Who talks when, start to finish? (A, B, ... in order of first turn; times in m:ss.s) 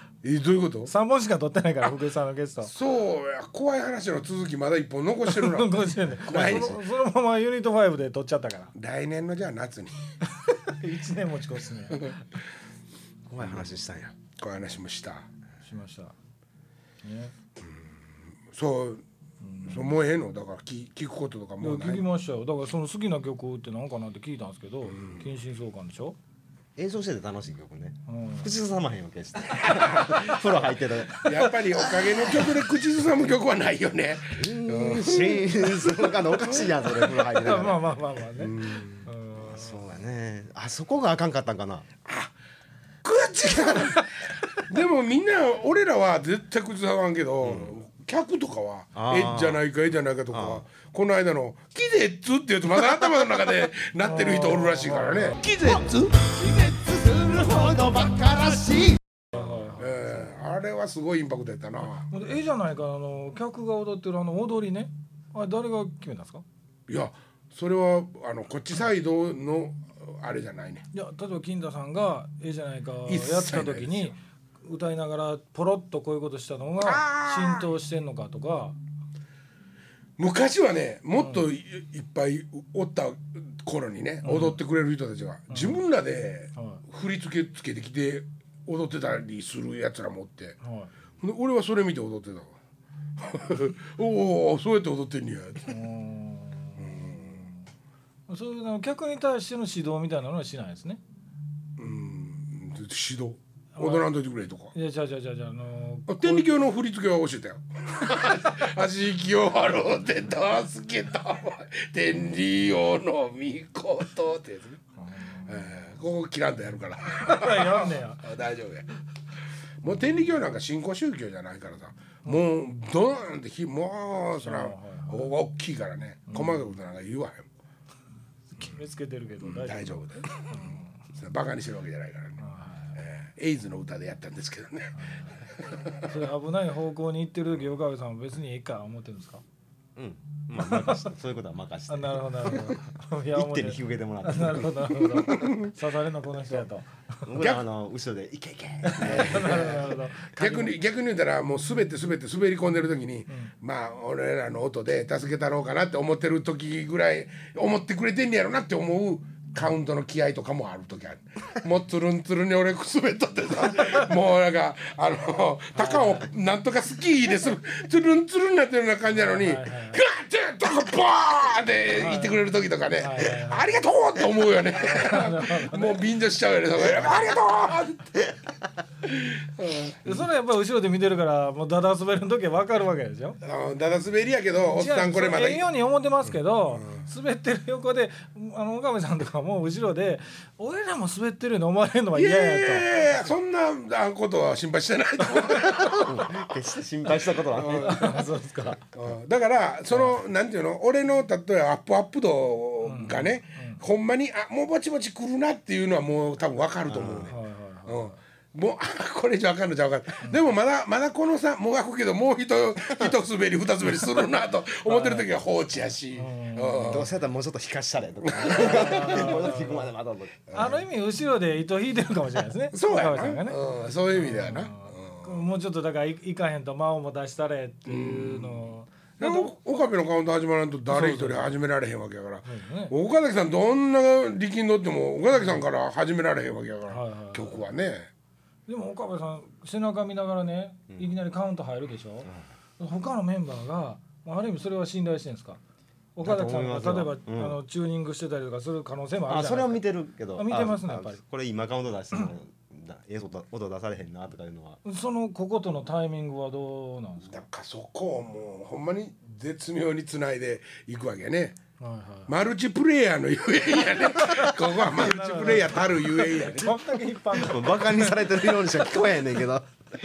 0:00.2-0:00.9 A
0:00.8-0:02.7 B
0:02.6-0:06.8 A
0:05.2-0:08.7 B
0:06.3-0:06.8 C
0:08.8-0:10.0 A
0:10.4-0:12.2 B
0:13.3-0:14.1 C
0:13.4-0:13.7 A
0:14.4-0:15.3 A
0:15.6-0:16.1 B
0:17.0-0:17.3 B
0:18.5-0:19.0 A
0:19.4-0:19.9 B
0:19.6-0:22.0 A
0:21.6-0:26.2 B
0:24.9-0:25.3 A
0:26.8-0:32.2 C
0:28.1-0:28.5 B
0:29.6-0:30.5 A
0:31.1-0:37.1 A
0:34.3-0:37.9 C
0:37.2-0:39.8 B
0:38.4-0:39.1 A
0:39.4-0:41.8 C
0:42.0-0:42.3 A
0:43.0-0:58.8 A
0:47.4-0:47.7 C
0:48.9-0:49.6 C
0:50.3-0:50.6 C
0:54.0-0:55.4 B
0:56.4-0:59.0 C
0:59.3-0:59.9 B
0:59.8-1:02.1 A
1:02.1-1:06.4 B
1:06.9-1:10.8 A
1:10.9-1:18.8 B
1:13.0-1:14.1 A
1:16.8-1:17.7 A
1:20.2-1:30.6 A
1:21.2-1:21.4 B
1:24.2-1:24.6 B
1:25.5-1:25.8 B
1:26.6-1:26.8 B
1:30.6-1:30.9 B
1:31.2-1:32.5 A
1:33.2-1:35.8 A
1:35.7-1:37.5 B
1:36.8-1:37.5 A
1:38.3-1:41.0 B
1:41.8-1:44.7 A
1:43.8-1:44.1 B
1:44.7-1:46.5 B
1:46.1-1:54.8 A
1:55.0-1:55.6 B
1:55.5-1:58.9 A
1:57.2-1:58.2 B
1:59.8-2:07.4 A
2:04.4-2:05.3 B
2:06.3-2:06.7 B
2:08.5-2:11.0 B
2:09.4-2:12.4 A
2:12.4-2:12.9 B
2:13.0-2:16.1 A
2:15.0-2:15.4 B
2:16.0-2:19.4 B
2:20.0-2:22.8 C
2:20.6-2:21.1 B
2:21.9-2:27.3 B
2:23.3-2:24.9 C
2:25.0-2:25.7 A
2:27.2-2:29.8 C
2:27.4-2:27.6 A
2:28.8-2:30.7 B
2:29.0-2:58.2 A
2:45.8-2:46.2 B
2:49.1-2:50.0 B
2:52.0-2:52.4 B
2:53.0-2:53.7 B
2:54.7-2:56.0 B
2:59.0-3:00.2 A
3:00.0-3:03.4 B
3:03.4-3:05.6 A
3:04.6-3:13.3 B
3:06.7-3:07.0 A
3:12.2-3:16.4 A
3:15.6-3:18.8 C
3:17.6-3:18.1 A
3:17.6-3:18.8 B
3:18.9-3:37.1 A
3:22.8-3:23.8 B
3:26.8-3:27.3 C
3:27.3-3:28.2 B
3:34.8-3:35.3 B
3:36.1-3:37.1 B
3:36.9-3:40.8 C
3:38.2-3:39.4 A
3:38.4-3:39.9 B
3:40.5-3:43.6 B
3:42.7-3:45.5 A
3:44.1-3:49.5 B
3:47.8-3:58.1 A
3:50.9-3:51.5 B
3:52.4-3:52.9 B
3:55.3-3:55.6 B
3:56.9-3:57.6 B
3:58.7-4:05.6 B
4:06.2-4:11.2 B
4:06.2-4:07.6 C
4:09.3-4:14.8 C
4:14.8-4:17.4 B
4:17.2-4:21.6 A
4:21.8-4:22.3 B
4:22.3-4:26.8 A
4:24.3-4:28.9 B
4:27.3-4:29.7 C